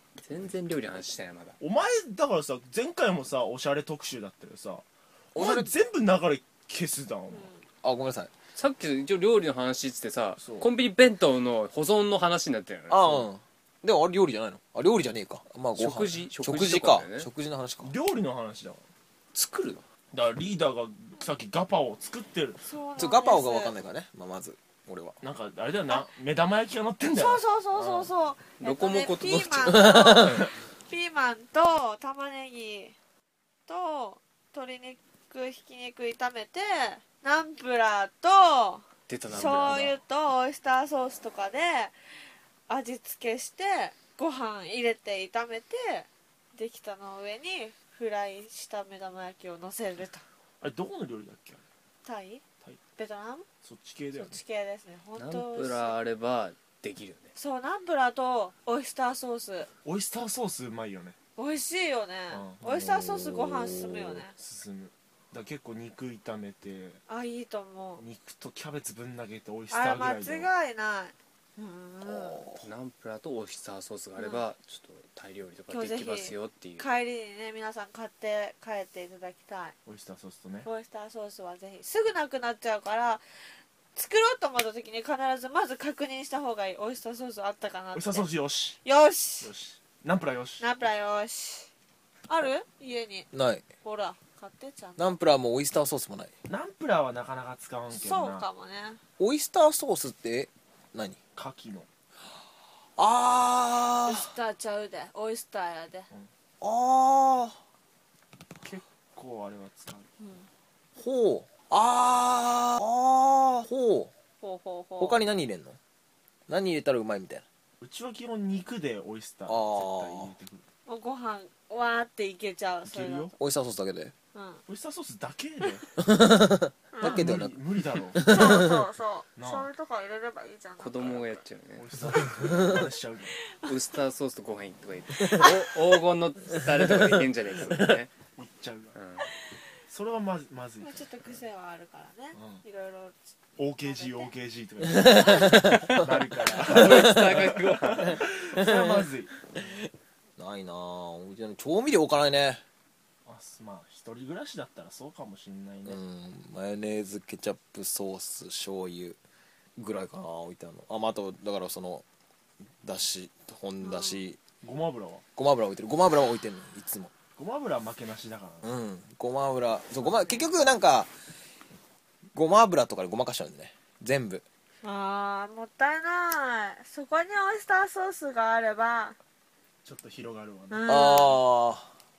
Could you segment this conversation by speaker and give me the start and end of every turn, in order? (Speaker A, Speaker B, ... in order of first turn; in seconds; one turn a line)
Speaker A: 0.2-1.6
Speaker B: 1.6-7.5
Speaker C: 5.3-5.7
Speaker C: 7.8-8.3
Speaker A: 8.5-13.3
Speaker B: 10.4-10.7
Speaker C: 12.9-17.9
Speaker A: 15.7-17.3
Speaker B: 17.8-18.8
Speaker C: 19.3-19.8
Speaker B: 20.1-22.6
Speaker D: 22.6-23.7
Speaker C: 23.0-25.2
Speaker B: 25.2-28.1
Speaker D: 27.1-32.9
Speaker A: 28.6-29.8
Speaker C: 29.6-30.4
Speaker D: 33.7-42.0
Speaker A: 39.1-39.9
Speaker C: 39.3-39.8
Speaker D: 42.7-50.2
Speaker B: 50.6-51.6
Speaker D: 52.0-52.4
Speaker D: 53.0-53.5
Speaker B: 53.6-54.4
Speaker D: 54.1-56.0
Speaker A: 55.1-57.3
Speaker D: 57.4-59.7
Speaker B: 59.8-61.1
Speaker D: 61.4-64.3
Speaker B: 62.3-63.1
Speaker B: 64.3-67.0
Speaker D: 67.1-68.0
Speaker B: 68.0-70.5
Speaker D: 69.7-72.4
Speaker C: 72.0-72.6
Speaker A: 72.6-76.8
Speaker D: 74.2-74.4
Speaker D: 75.7-79.7
Speaker B: 79.8-80.7
Speaker D: 80.6-83.4
Speaker D: 83.9-88.3
Speaker B: 87.9-88.8
Speaker D: 88.8-89.5
Speaker B: 89.4-90.7
Speaker D: 90.6-91.7
Speaker D: 92.3-93.3
Speaker C: 93.3-93.6
Speaker D: 93.8-95.2
Speaker C: 95.0-96.3
Speaker B: 96.5-98.5
Speaker D: 97.9-99.0
Speaker C: 99.2-101.2
Speaker B: 101.3-101.9
Speaker C: 103.0-104.3
Speaker D: 104.0-106.1
Speaker C: 106.6-107.6
Speaker B: 108.6-110.1
Speaker D: 110.2-110.5
Speaker C: 111.0-114.1
Speaker D: 114.4-115.2
Speaker C: 115.0-115.8
Speaker C: 116.5-117.4
Speaker B: 117.8-120.6
Speaker C: 119.5-120.3
Speaker D: 120.8-123.3
Speaker B: 122.8-123.3
Speaker C: 123.4-124.1
Speaker D: 124.3-124.6
Speaker B: 124.7-125.8
Speaker C: 126.0-128.7
Speaker D: 126.9-127.3
Speaker B: 127.0-128.6
Speaker D: 128.2-131.2
Speaker B: 129.3-129.7
Speaker A: 130.8-131.9
Speaker B: 131.7-133.3
Speaker C: 132.4-132.9
Speaker D: 133.4-133.7
Speaker A: 133.7-138.1
Speaker D: 135.3-135.6
Speaker C: 136.9-137.7
Speaker B: 138.3-139.0
Speaker A: 138.9-139.3
Speaker B: 139.9-141.4
Speaker D: 140.8-144.3
Speaker B: 142.3-142.6
Speaker B: 143.6-149.5
Speaker C: 145.1-145.9
Speaker A: 145.5-148.2
Speaker C: 146.6-147.4
Speaker C: 148.1-149.0
Speaker C: 150.4-152.6
Speaker B: 153.2-156.0
Speaker C: 155.8-159.2
Speaker C: 159.8-162.0
Speaker C: 162.8-164.4
Speaker D: 163.8-164.2
Speaker B: 164.6-165.2
Speaker C: 165.3-167.1
Speaker B: 167.3-168.7
Speaker C: 168.6-171.1
Speaker D: 170.0-170.4
Speaker C: 172.3-174.4
Speaker D: 174.8-179.2
Speaker B: 179.8-180.9
Speaker D: 180.7-181.4
Speaker C: 180.8-181.9